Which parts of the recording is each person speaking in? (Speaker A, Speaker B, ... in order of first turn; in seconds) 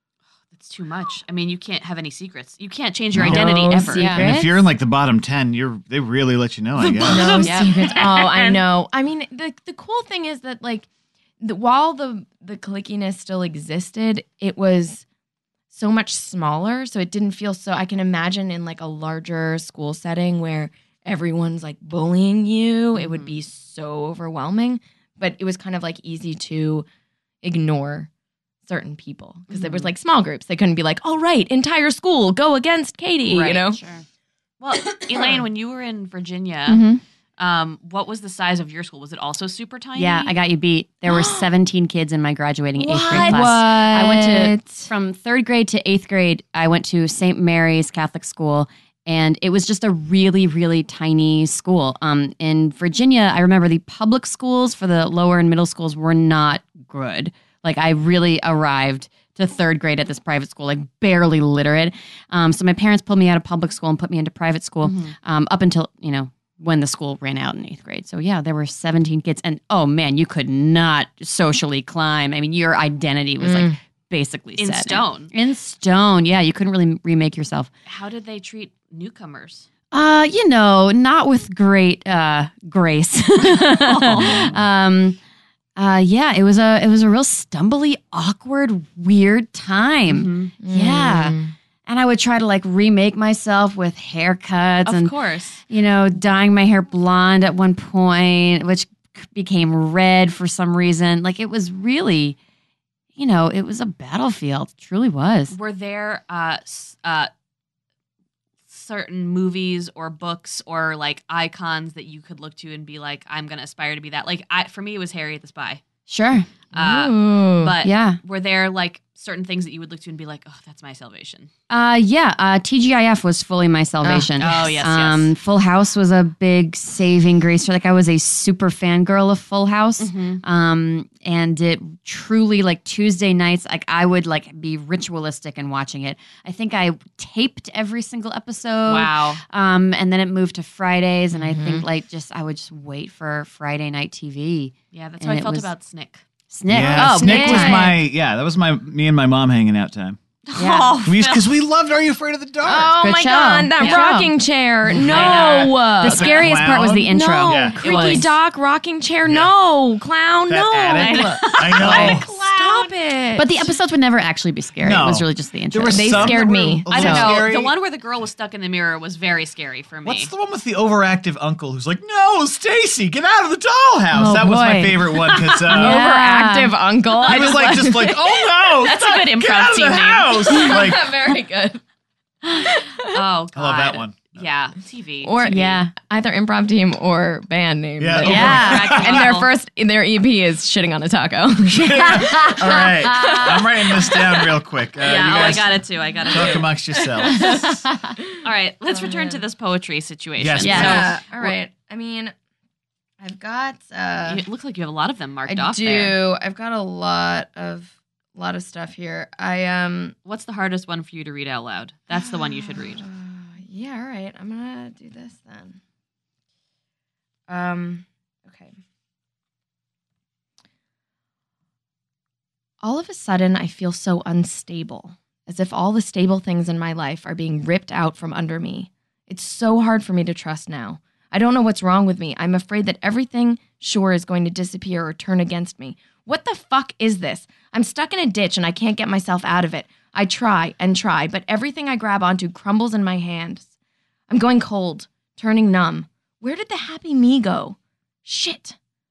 Speaker A: 0.5-4.1, 6.8-8.1, 22.9-23.4, 29.5-29.9, 33.2-33.7, 34.6-36.8, 37.4-40.3, 42.9-43.5, 64.8-65.1, 74.6-75.3, 77.9-79.7, 83.5-84.5, 90.1-90.5, 94.8-95.6, 105.5-107.3, 108.7-115.8, 116.7-121.5, 124.4-125.3, 130.0-130.4, 138.9-139.4, 144.9-146.3, 147.0-147.2, 150.5-151.5, 153.8-154.1, 155.0-155.9, 157.8-158.2, 161.0-162.9, 166.9-170.3, 177.3-177.7, 178.8-180.7, 183.1-185.4, 188.2-189.5, 193.1-194.2, 195.0-197.6, 198.4-201.6, 204.2-206.2, 210.3-213.1
Speaker B: 3.1-3.5, 4.1-7.4, 84.3-84.6, 146.7-150.2, 151.1-153.0, 155.0-155.4, 156.0-157.8, 159.3-159.5, 160.5-162.3, 164.8-167.7, 170.0-176.0, 177.2-181.2, 183.5-184.5, 188.0-189.2, 191.7-195.8, 196.3-197.6, 200.4-201.1
Speaker C: 3.2-4.7, 7.1-10.9, 11.4-15.1, 15.7-26.9, 27.4-28.1, 28.7-33.8, 41.1-41.5, 42.8-44.9, 73.4-73.8, 90.6-91.5, 116.7-117.8, 124.0-124.3, 141.3-141.8, 146.8-148.0, 152.6-156.3, 157.1-163.7, 165.9-167.4, 175.7-178.2, 180.5-181.8, 182.6-183.2, 185.2-194.2, 198.2-199.4, 200.6-202.3, 203.2-204.4, 205.5-210.2, 212.1-215.8, 217.5-218.8, 222.8-243.7, 244.3-248.8
Speaker D: 3.9-4.3, 7.4-8.6, 33.7-34.0, 40.0-77.7, 79.9-85.2, 85.8-95.1, 95.7-102.4, 103.2-105.5, 116.1-116.5, 117.8-118.2, 121.7-145.7, 146.5-147.9, 150.6-150.9, 153.0-154.3, 154.9-158.3, 163.4-166.4, 174.1-175.0, 175.7-176.7, 185.4-185.9, 188.2-188.9, 200.6-201.1